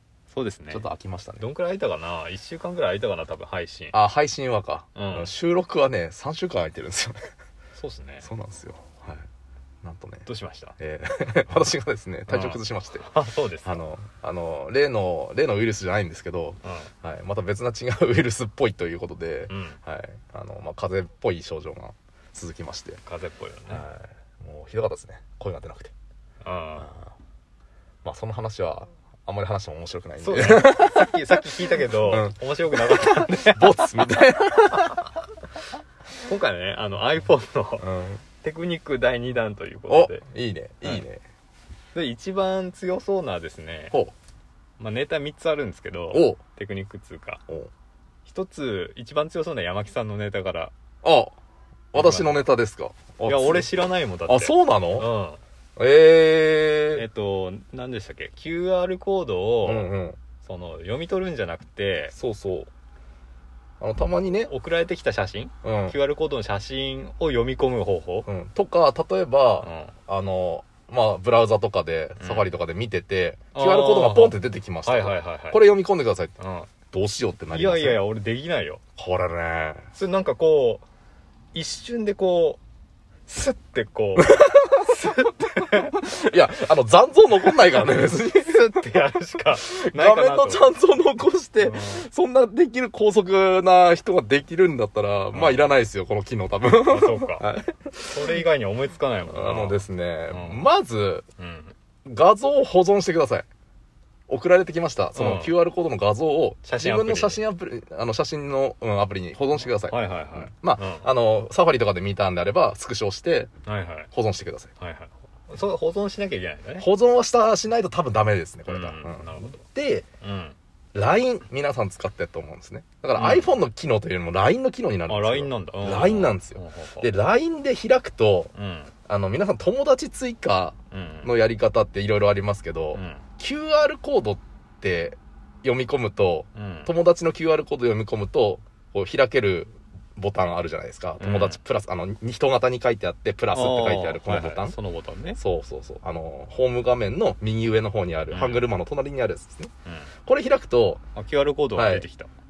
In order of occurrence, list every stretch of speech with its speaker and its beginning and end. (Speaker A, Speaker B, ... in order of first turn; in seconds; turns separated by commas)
Speaker A: 0.3-0.8, Speaker B: 0.7-1.4, Speaker A: 1.4-3.9, Speaker B: 3.9-7.3, Speaker A: 4.9-5.3, Speaker A: 7.7-8.3, Speaker B: 8.2-9.2, Speaker B: 9.8-10.2, Speaker A: 10.2-10.7, Speaker B: 10.8-13.1, Speaker A: 12.3-13.8, Speaker B: 13.6-23.0, Speaker A: 16.6-16.9, Speaker A: 19.5-19.8, Speaker A: 23.0-23.8, Speaker B: 23.7-25.9, Speaker A: 26.4-26.9, Speaker B: 26.8-27.1, Speaker B: 28.0-32.4, Speaker A: 30.2-33.9, Speaker B: 33.0-35.0, Speaker A: 36.2-37.9, Speaker B: 37.8-38.2, Speaker A: 38.4-40.2, Speaker B: 39.9-41.2, Speaker A: 41.9-44.0, Speaker A: 44.8-47.4, Speaker B: 46.1-46.4, Speaker A: 48.2-50.7, Speaker B: 51.0-51.3, Speaker B: 51.9-53.7, Speaker A: 51.9-52.5, Speaker A: 53.2-55.4, Speaker B: 54.3-55.1, Speaker B: 55.8-57.0, Speaker A: 56.9-59.9, Speaker B: 59.6-60.2, Speaker A: 60.4-62.1, Speaker B: 62.1-62.7, Speaker B: 63.8-64.5, Speaker A: 64.5-68.3, Speaker B: 65.6-66.0, Speaker B: 68.2-76.3, Speaker A: 69.6-69.9, Speaker A: 72.2-72.5, Speaker A: 73.5-75.6, Speaker A: 76.4-76.7, Speaker B: 76.9-78.0, Speaker A: 77.5-78.8, Speaker B: 79.0-79.9, Speaker A: 79.9-80.8, Speaker A: 81.5-82.6, Speaker A: 83.3-86.2, Speaker B: 84.2-84.9, Speaker B: 85.7-98.4, Speaker A: 87.5-90.7, Speaker A: 91.6-92.1, Speaker A: 95.3-95.7, Speaker A: 96.8-97.4, Speaker A: 98.1-100.7, Speaker B: 99.3-101.2, Speaker A: 101.4-101.7, Speaker B: 102.0-103.5, Speaker B: 104.3-113.5, Speaker A: 105.1-105.6, Speaker A: 106.6-107.4, Speaker A: 109.8-111.1, Speaker A: 113.7-114.1, Speaker B: 114.1-114.7, Speaker A: 114.8-116.9, Speaker B: 116.8-120.1, Speaker A: 118.7-119.6, Speaker A: 120.2-120.5, Speaker B: 120.9-128.5, Speaker A: 123.2-123.5, Speaker A: 125.1-127.1, Speaker A: 128.5-128.9, Speaker B: 129.1-144.8, Speaker A: 130.9-131.3, Speaker A: 132.9-133.2, Speaker A: 136.5-136.9, Speaker A: 141.2-141.6, Speaker A: 143.5-145.4, Speaker B: 145.4-149.7, Speaker A: 148.3-148.7, Speaker B: 150.2-151.0, Speaker A: 151.2-152.3, Speaker B: 151.7-152.1